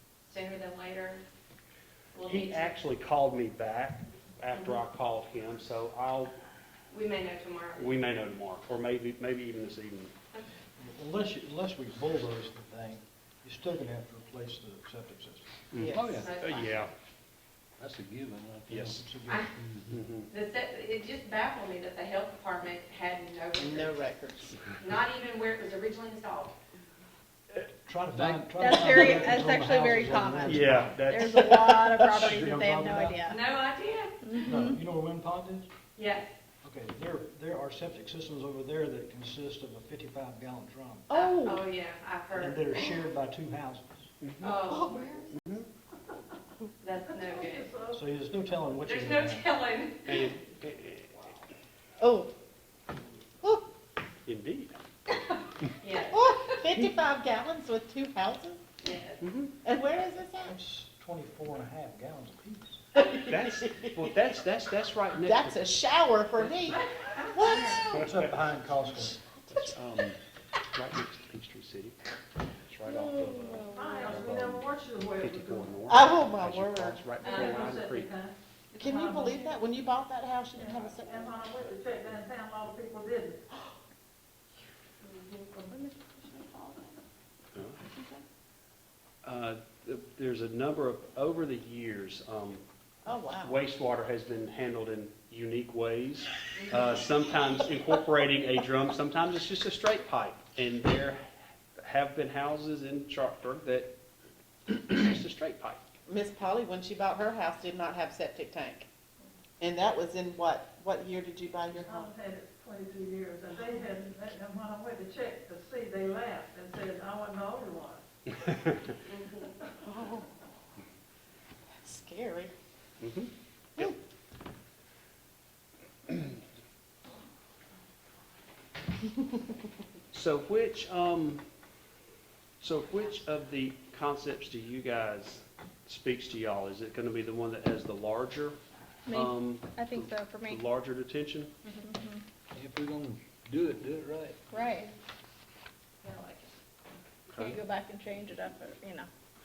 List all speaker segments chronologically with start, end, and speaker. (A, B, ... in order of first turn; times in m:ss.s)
0:00.2-0:01.2 A
0:02.1-0:02.8 A
0:02.2-0:06.3 B
0:06.9-0:08.0 A
0:07.8-0:10.1 B
0:10.8-0:15.6 C
0:15.7-0:16.9 B
0:15.8-0:16.1 D
0:16.0-0:16.2 E
0:16.1-0:16.8 A
0:17.8-0:19.0 E
0:18.7-0:19.0 B
0:18.9-0:19.5 C
0:19.3-0:19.5 A
0:19.6-0:19.9 E
0:19.8-0:20.3 B
0:20.3-0:24.1 A
0:23.6-0:24.6 D
0:24.8-0:26.5 A
0:27.8-0:30.9 C
0:28.2-0:29.2 B
0:28.5-0:33.4 F
0:30.4-0:32.2 B
0:32.1-0:33.2 C
0:33.2-0:34.5 A
0:34.2-0:34.8 F
0:34.4-0:35.7 C
0:36.0-0:36.3 A
0:36.6-0:41.1 C
0:41.1-0:41.7 D
0:41.1-0:42.6 A
0:42.4-0:44.1 C
0:44.2-0:44.6 B
0:44.4-0:45.3 A
0:44.8-0:45.2 D
0:45.3-0:45.7 B
0:46.8-0:47.7 A
0:47.2-0:48.0 G
0:47.9-0:49.5 C
0:48.8-0:50.3 A
0:50.0-0:51.3 B
0:52.0-0:52.3 D
0:54.2-0:54.8 B
0:55.2-0:56.6 A
0:56.1-0:58.6 D
0:58.8-0:59.2 A
0:59.2-0:59.5 B
0:59.6-1:00.6 D
1:00.4-1:02.8 C
1:03.0-1:04.1 D
1:03.2-1:05.6 B
1:05.2-1:08.1 D
1:06.8-1:07.3 A
1:07.3-1:07.9 F
1:07.9-1:08.2 B
1:07.9-1:09.2 C
1:09.3-1:10.2 B
1:10.7-1:12.0 B
1:12.6-1:18.1 B
1:12.9-1:14.0 F
1:13.7-1:15.7 G
1:15.9-1:17.0 D
1:17.2-1:17.6 A
1:17.3-1:19.6 G
1:18.7-1:21.4 D
1:20.6-1:23.4 G
1:21.6-1:22.2 B
1:25.0-1:25.4 A
1:29.2-1:32.6 B
1:33.0-1:33.6 D
1:33.4-1:41.2 B
1:36.5-1:37.0 A
1:41.8-1:43.9 B
1:44.7-1:45.8 B
1:46.1-1:48.9 D
1:49.6-1:52.1 D
1:51.9-1:58.0 G
1:59.0-1:59.5 A
1:59.8-2:00.3 D
2:01.8-2:02.5 D
2:03.0-2:03.9 B
2:10.1-2:11.4 B
2:12.6-2:21.5 B
2:19.0-2:20.6 F
2:21.7-2:22.2 F
2:22.7-2:23.0 E
2:23.7-2:24.1 E
2:24.5-2:24.9 F
2:26.0-2:26.5 A
2:27.3-2:27.6 B
2:27.3-2:29.1 F